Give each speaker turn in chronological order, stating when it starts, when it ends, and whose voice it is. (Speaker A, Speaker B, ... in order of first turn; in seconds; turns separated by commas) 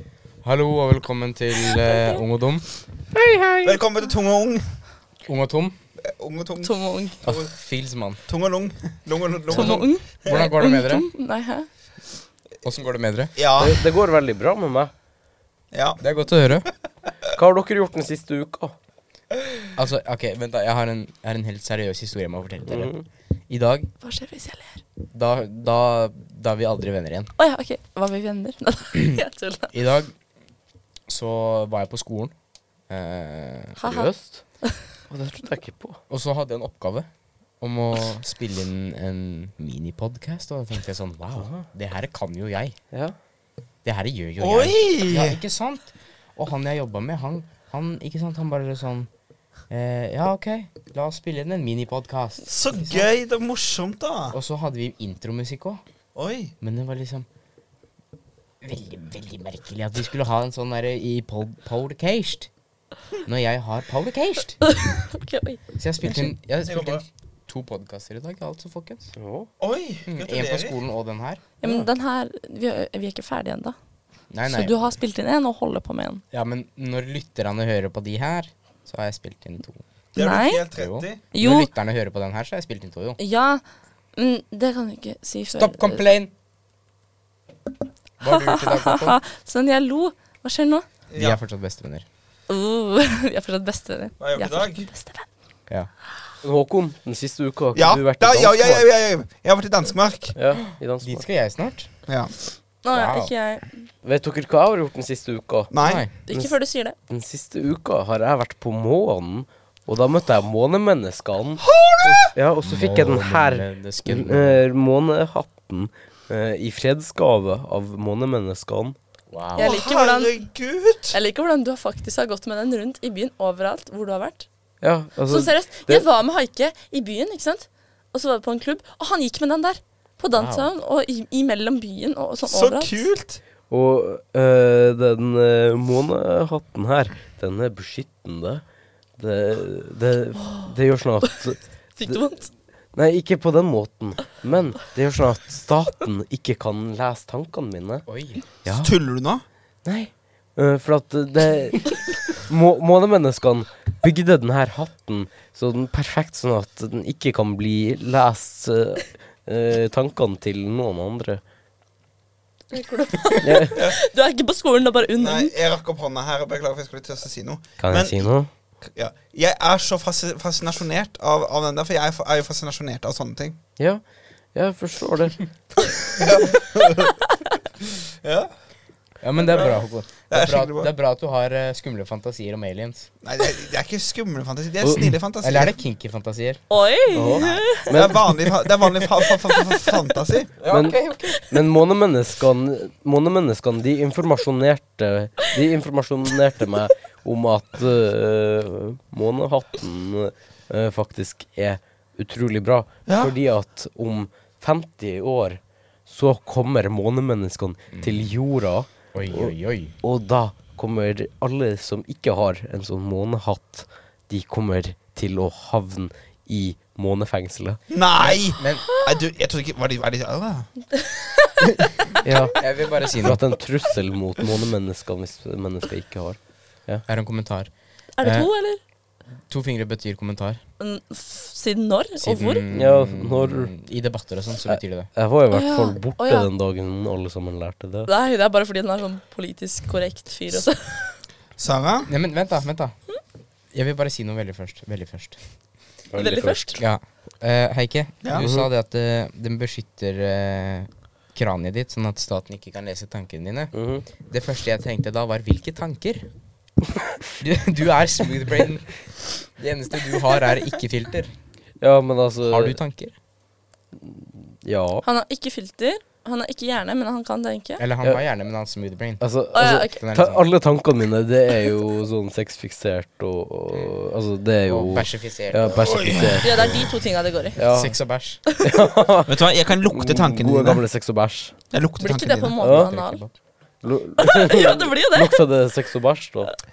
Speaker A: 0.4-3.8, Speaker B: 1.9-2.2, Speaker C: 3.6-4.7, Speaker A: 5.3-5.8, Speaker C: 6.0-7.5, Speaker B: 6.6-7.2, Speaker A: 7.2-8.2, Speaker C: 8.3-10.4, Speaker A: 9.5-11.1, Speaker B: 9.5-11.7, Speaker A: 12.6-13.3, Speaker C: 13.4-13.8, Speaker D: 13.6-14.9, Speaker C: 15.7-16.0, Speaker A: 16.0-16.7, Speaker D: 17.3-18.7, Speaker A: 19.8-22.9, Speaker D: 22.7-23.1, Speaker A: 23.5-23.9, Speaker B: 24.0-24.8, Speaker A: 25.1-27.3, Speaker B: 27.4-29.7, Speaker A: 29.7-30.1, Speaker A: 31.1-32.3, Speaker A: 32.9-33.8, Speaker B: 33.8-34.8, Speaker D: 33.9-34.4, Speaker D: 35.1-36.0, Speaker A: 36.1-37.1, Speaker A: 37.6-42.8, Speaker D: 41.4-41.7, Speaker A: 43.8-49.1, Speaker C: 44.4-45.4, Speaker A: 49.7-53.1, Speaker C: 52.5-54.4, Speaker A: 54.3-55.8, Speaker C: 56.1-56.5, Speaker A: 56.6-57.3, Speaker A: 58.6-62.5, Speaker A: 63.3-64.6, Speaker B: 64.6-65.6, Speaker A: 65.8-69.1, Speaker C: 66.1-67.0, Speaker D: 69.2-69.5, Speaker C: 69.6-70.8, Speaker A: 70.1-71.9, Speaker B: 71.6-73.8, Speaker A: 74.3-74.7, Speaker B: 74.5-76.2, Speaker A: 76.3-79.8, Speaker C: 80.1-81.2, Speaker B: 80.2-80.6, Speaker A: 80.8-83.2, Speaker B: 81.3-81.7, Speaker B: 83.2-83.6, Speaker B: 84.2-86.1, Speaker A: 85.6-86.3, Speaker A: 88.2-89.2, Speaker B: 88.3-90.8, Speaker C: 91.1-91.4, Speaker A: 91.2-92.0, Speaker B: 92.5-95.3, Speaker C: 94.2-94.9, Speaker D: 96.4-98.9, Speaker C: 97.8-100.3, Speaker D: 100.4-101.2, Speaker A: 101.0-101.9, Speaker C: 102.1-102.3, Speaker B: 102.8-103.8, Speaker A: 102.9-103.3, Speaker D: 104.0-105.7, Speaker C: 105.7-106.0, Speaker A: 105.8-106.1, Speaker B: 106.3-107.0, Speaker D: 107.1-119.0, Speaker C: 111.6-112.3, Speaker A: 112.6-114.6, Speaker A: 119.3-119.8, Speaker B: 119.6-120.3, Speaker C: 119.6-121.2, Speaker B: 121.1-124.5, Speaker D: 124.8-126.0, Speaker B: 125.3-133.1, Speaker A: 130.3-130.7, Speaker C: 132.4-133.4, Speaker D: 133.7-138.6, Speaker D: 139.2-142.2, Speaker B: 142.0-142.5, Speaker D: 142.9-148.0, Speaker A: 148.1-148.4, Speaker D: 148.7-148.9, Speaker C: 148.7-149.4, Speaker D: 149.8-161.4, Speaker B: 162.7-165.5, Speaker D: 163.4-163.8, Speaker C: 165.2-168.3, Speaker D: 167.8-168.5, Speaker C: 168.9-173.6, Speaker D: 174.5-175.4, Speaker C: 176.1-177.2, Speaker C: 178.2-178.5, Speaker A: 179.2-183.1, Speaker C: 179.4-180.9, Speaker C: 183.2-185.7, Speaker D: 184.8-185.1, Speaker A: 185.4-186.6, Speaker B: 186.7-188.0, Speaker D: 187.1-188.3, Speaker A: 187.3-187.6, Speaker C: 187.9-190.9, Speaker B: 189.5-189.9, Speaker D: 190.7-217.8, Speaker A: 190.7-191.4, Speaker C: 203.1-203.3, Speaker A: 207.9-208.3, Speaker A: 209.1-209.9, Speaker C: 217.9-220.7, Speaker A: 218.2-218.8, Speaker B: 220.9-221.7, Speaker D: 222.2-227.0, Speaker A: 222.6-223.4, Speaker A: 227.1-227.7, Speaker B: 228.2-228.8, Speaker A: 228.2-228.5, Speaker A: 229.5-230.6, Speaker B: 230.8-232.7, Speaker A: 232.2-235.1, Speaker D: 232.7-233.7, Speaker D: 234.7-238.1, Speaker B: 235.5-236.5, Speaker B: 238.1-241.2, Speaker C: 241.6-242.1, Speaker A: 242.1-242.9, Speaker A: 243.7-245.4, Speaker D: 246.1-246.8, Speaker B: 246.2-246.8, Speaker A: 246.8-256.3, Speaker D: 248.3-248.7, Speaker D: 253.7-254.0, Speaker A: 257.4-258.9, Speaker A: 259.6-261.3, Speaker D: 261.8-262.8, Speaker A: 262.4-263.1, Speaker D: 264.0-265.1, Speaker B: 265.0-267.8, Speaker A: 267.8-269.2, Speaker D: 269.2-276.9, Speaker B: 269.5-270.0, Speaker A: 269.8-270.5, Speaker A: 274.7-276.1, Speaker C: 275.7-276.8, Speaker B: 276.4-277.6, Speaker D: 277.6-278.0, Speaker A: 277.7-278.4, Speaker D: 278.6-281.5, Speaker C: 279.3-280.8, Speaker C: 281.7-282.6, Speaker B: 282.0-283.2, Speaker D: 282.6-282.9, Speaker A: 282.6-283.3, Speaker D: 283.8-286.5, Speaker B: 284.2-285.4